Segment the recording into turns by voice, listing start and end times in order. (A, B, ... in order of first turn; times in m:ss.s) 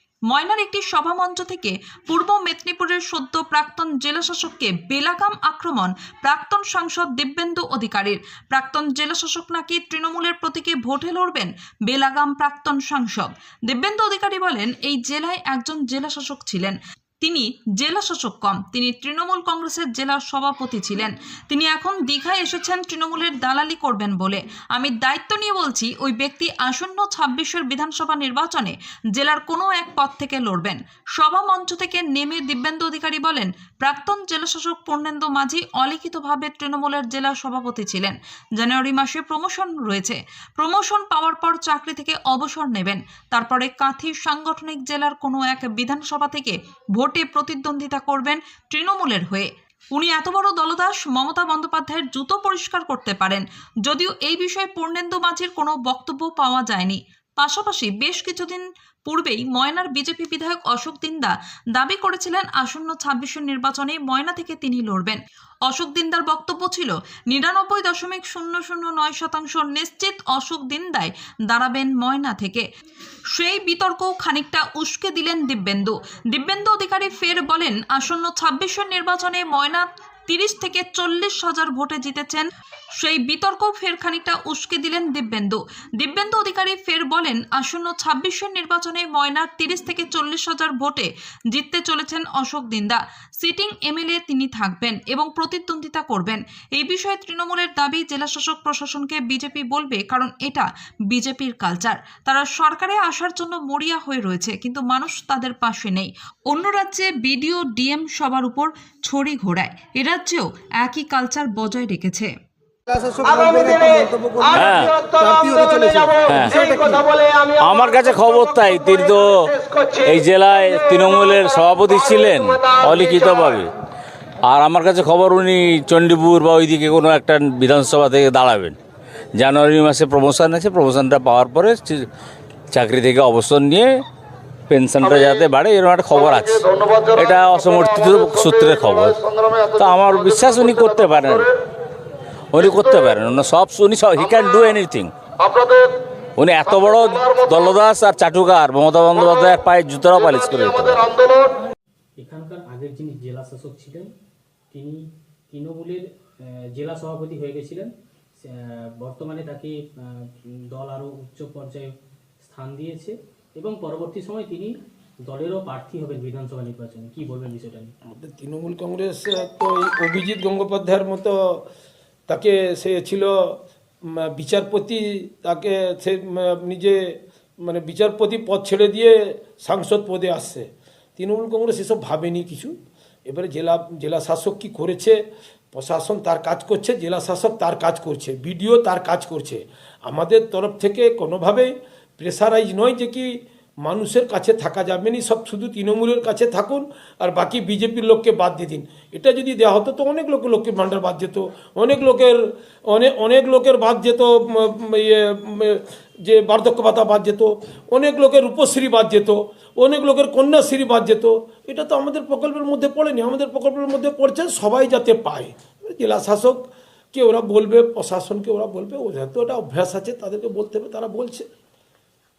0:00.3-1:12.6 A
1:13.3-1:52.3 A
1:52.9-1:54.5 B
1:54.5-1:55.1 C
1:55.2-1:56.1 B
1:56.2-1:56.7 C
1:56.7-1:57.0 B
1:57.6-2:03.7 C
2:04.4-2:08.8 C
2:09.4-2:12.1 C
2:12.7-2:14.0 C
2:14.7-2:21.5 C
2:22.5-2:25.1 C
2:26.4-2:31.2 C
2:32.2-2:34.1 D
2:34.7-2:47.9 D
2:48.1-2:51.6 E
2:52.3-2:53.5 E
2:54.1-2:57.0 E
2:57.6-3:02.7 E
3:03.3-3:05.2 E
3:05.7-3:41.5 E